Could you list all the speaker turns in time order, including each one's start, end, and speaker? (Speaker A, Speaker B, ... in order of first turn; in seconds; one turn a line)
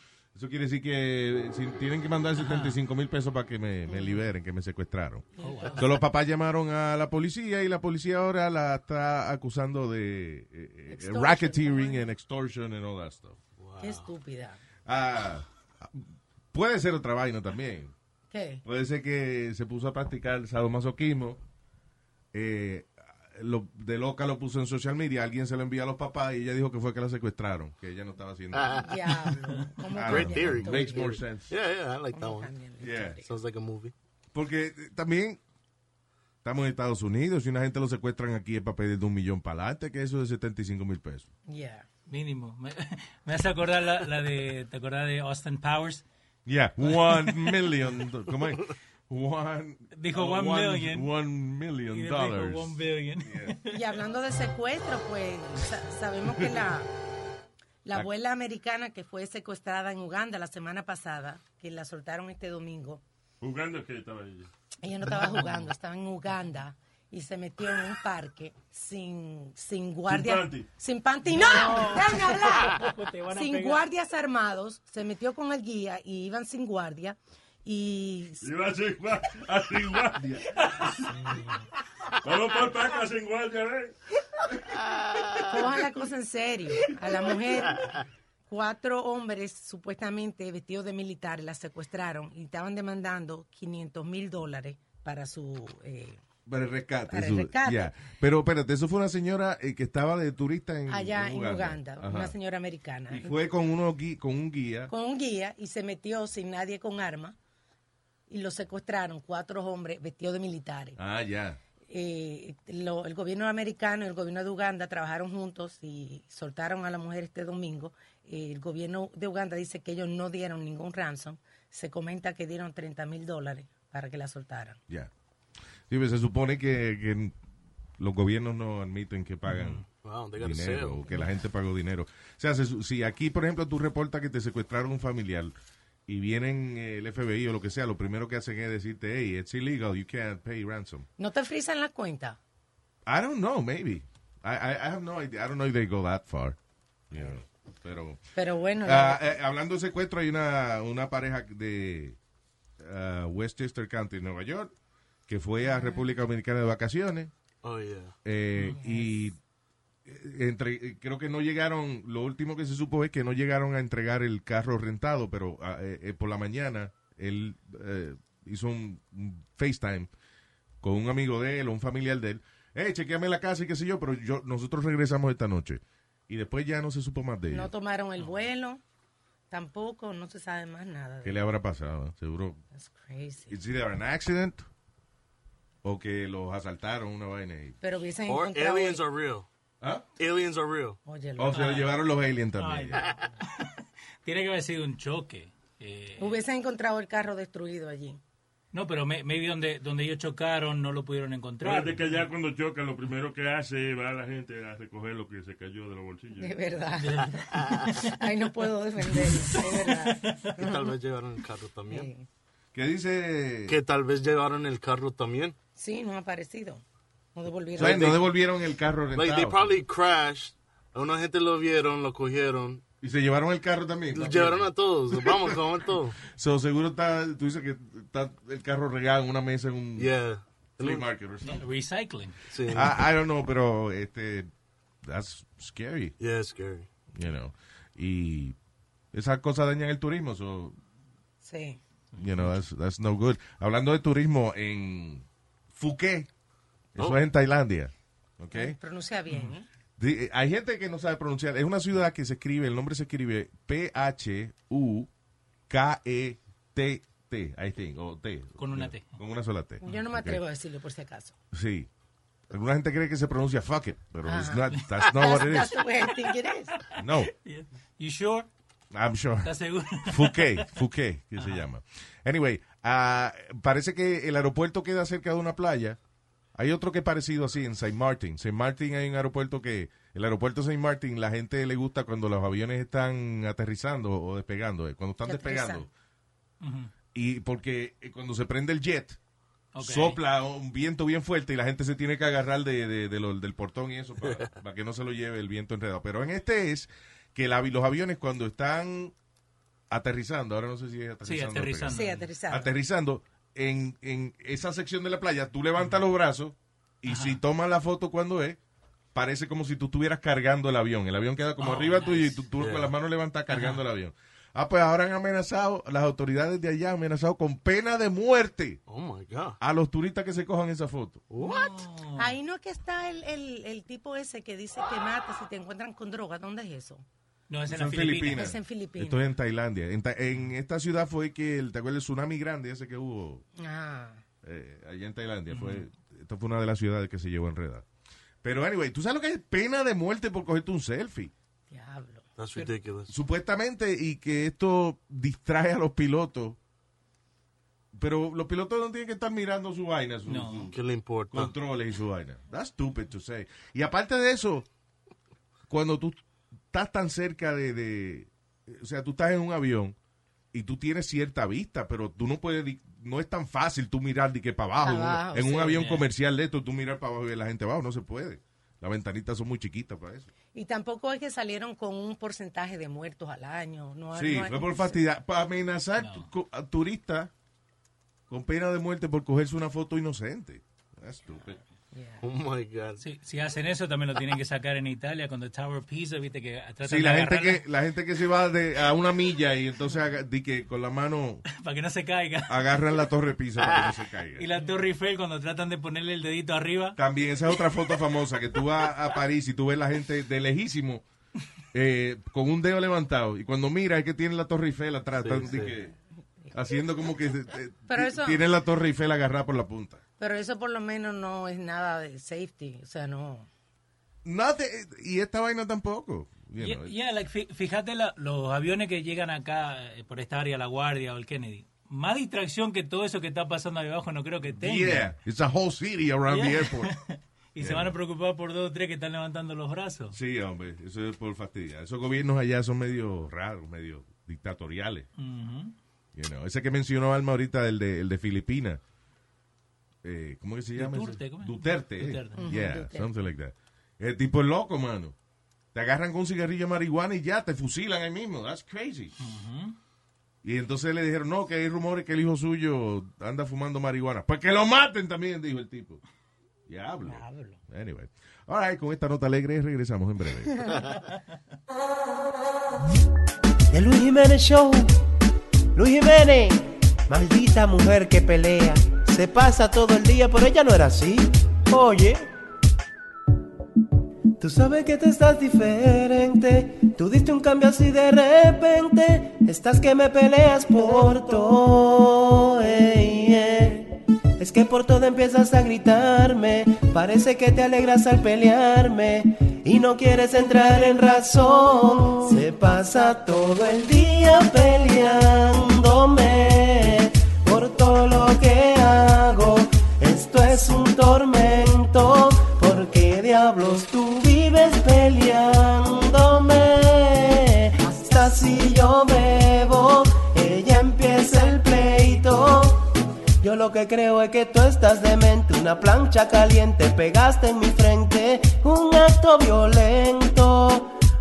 Speaker A: 0.3-13.4
Speaker B: 2.4-2.8
Speaker C: 3.9-4.2
Speaker C: 5.4-6.0
Speaker B: 5.4-5.8
Speaker C: 10.9-12.1
Speaker D: 13.6-14.1
Speaker C: 13.8-14.6
Speaker A: 14.8-17.9
Speaker C: 18.3-18.6
Speaker A: 18.6-21.4
Speaker A: 22.3-28.8
Speaker D: 28.5-28.8
Speaker C: 28.7-31.1
Speaker A: 29.9-31.5
Speaker D: 30.1-32.5
Speaker C: 32.1-33.3
Speaker A: 32.8-33.2
Speaker D: 33.2-33.9
Speaker A: 34.3-35.4
Speaker A: 36.4-41.3
Speaker C: 41.5-41.9
Speaker B: 42.1-46.0
Speaker A: 46.5-53.5
Speaker B: 46.9-47.8
Speaker B: 50.0-51.1
Speaker B: 51.9-53.8
Speaker C: 53.7-56.9
Speaker C: 57.8-63.0
Speaker E: 63.4-64.5
Speaker C: 64.8-72.8
Speaker B: 65.2-65.7
Speaker E: 70.1-70.7
Speaker B: 71.3-73.8
Speaker C: 73.3-78.5
Speaker E: 78.4-81.0
Speaker A: 80.2-80.4
Speaker E: 82.2-83.9
Speaker C: 85.5-87.9
Speaker C: 88.5-96.2
Speaker A: 96.5-102.3
Speaker C: 97.1-97.9
Speaker C: 100.9-103.4
Speaker A: 103.1-104.9
Speaker C: 104.9-107.4
Speaker C: 108.3-111.0
Speaker A: 111.0-111.6
Speaker C: 111.8-124.8
Speaker A: 125.9-127.3
Speaker A: 128.0-129.8
Speaker B: 129.5-129.8
Speaker D: 130.0-131.1
Speaker A: 130.4-135.5
Speaker A: 136.1-141.1
Speaker C: 141.2-142.4
Speaker A: 143.1-146.6
Speaker A: 147.1-148.2
Speaker C: 148.3-149.3
Speaker A: 148.8-152.2
Speaker A: 152.8-154.7
Speaker A: 155.3-157.3
Speaker C: 155.6-156.1
Speaker D: 157.6-158.1
Speaker A: 158.2-159.4
Speaker C: 158.7-159.2
Speaker A: 160.0-170.1
Speaker A: 170.8-177.7
Speaker C: 177.5-178.8
Speaker C: 179.5-181.4
Speaker A: 181.2-182.6
Speaker C: 182.8-183.5
Speaker A: 183.5-184.7
Speaker A: 185.8-187.8
Speaker C: 187.8-189.0
Speaker D: 188.3-189.5
Speaker D: 190.2-191.0
Speaker C: 191.0-191.6
Speaker A: 191.4-193.0
Speaker B: 191.5-192.0
Speaker B: 192.6-196.4
Speaker C: 196.2-198.2
Speaker B: 198.7-202.3
Speaker E: 201.6-206.8
Speaker C: 206.4-210.9
Speaker B: 207.0-208.1
Speaker B: 209.3-210.1
Speaker D: 210.6-212.1
Speaker C: 211.9-212.2
Speaker A: 212.7-213.8
Speaker D: 213.7-215.6
Speaker C: 215.8-216.8
Speaker C: 217.3-218.2
Speaker D: 217.7-218.2
Speaker A: 217.8-219.8
Speaker D: 219.1-222.8
Speaker A: 223.0-224.7
Speaker D: 224.1-226.2
Speaker A: 225.3-225.6
Speaker A: 226.2-230.1
Speaker D: 230.0-231.1
Speaker A: 230.8-231.6
Speaker B: 231.4-232.9
Speaker D: 232.5-232.9
Speaker A: 232.7-234.5
Speaker A: 235.0-236.2
Speaker D: 236.2-236.9
Speaker A: 237.1-238.6
Speaker A: 239.1-240.8
Speaker C: 241.4-241.8
Speaker B: 242.1-242.6
Speaker A: 242.2-246.3
Speaker A: 246.9-248.8
Speaker C: 248.5-249.7
Speaker B: 249.3-249.5
Speaker A: 250.0-255.1
Speaker A: 255.7-260.4
Speaker B: 258.6-259.1
Speaker C: 259.8-261.3
Speaker A: 261.5-261.9
Speaker A: 262.5-265.8
Speaker C: 264.2-266.7
Speaker B: 266.8-268.5
Speaker A: 267.0-267.3
Speaker A: 268.9-276.0
Speaker B: 269.4-270.6
Speaker B: 271.4-271.6
Speaker A: 276.5-285.9
Speaker C: 285.2-285.8
Speaker B: 286.6-286.9
Speaker A: 287.1-289.2
Speaker B: 289.7-290.2
Speaker A: 289.8-299.1
Speaker A: 299.9-308.6
Speaker B: 301.2-302.3
Speaker C: 301.9-302.7
Speaker B: 307.1-307.4
Speaker A: 309.1-318.8
Speaker B: 311.6-312.4
Speaker D: 312.6-312.9
Speaker B: 313.5-313.8
Speaker D: 318.9-319.6
Speaker A: 319.6-321.2
Speaker D: 321.3-321.9
Speaker B: 321.4-322.3
Speaker C: 322.2-327.0
Speaker B: 327.5-328.5
Speaker A: 327.7-333.4
Speaker C: 328.3-329.2
Speaker C: 333.6-334.2
Speaker A: 334.4-337.8
Speaker B: 335.5-335.8
Speaker A: 338.4-341.3
Speaker C: 341.7-342.2
Speaker D: 342.4-343.1
Speaker A: 343.1-346.6
Speaker A: 347.9-350.8
Speaker B: 350.3-350.7
Speaker D: 350.7-351.5
Speaker A: 351.3-354.7
Speaker A: 355.7-356.2
Speaker A: 356.7-359.9
Speaker A: 360.5-370.3
Speaker C: 364.8-365.8
Speaker B: 365.7-366.1
Speaker C: 370.5-375.0
Speaker A: 374.1-377.3
Speaker B: 376.0-376.3
Speaker A: 378.3-381.6
Speaker C: 381.4-382.2
Speaker D: 382.2-383.0
Speaker B: 383.0-387.6
Speaker A: 386.8-391.4
Speaker B: 391.5-392.8
Speaker A: 392.5-394.5
Speaker B: 394.4-397.0
Speaker A: 397.0-401.0
Speaker A: 401.7-405.9
Speaker D: 405.2-405.7
Speaker A: 406.5-410.0
Speaker C: 407.9-408.4
Speaker C: 410.2-413.5
Speaker A: 414.2-416.9
Speaker B: 416.6-425.1
Speaker A: 424.5-426.9
Speaker B: 426.3-430.2
Speaker A: 427.6-427.9
Speaker A: 430.1-435.1
Speaker B: 435.2-435.7
Speaker A: 436.1-438.8
Speaker A: 440.0-445.1
Speaker B: 440.8-442.5
Speaker C: 442.4-443.1
Speaker A: 445.7-449.1
Speaker B: 449.2-449.8
Speaker A: 450.4-456.0
Speaker A: 456.7-460.7
Speaker C: 457.0-457.6
Speaker F: 463.7-464.9
Speaker F: 465.7-472.3
Speaker F: 474.4-520.9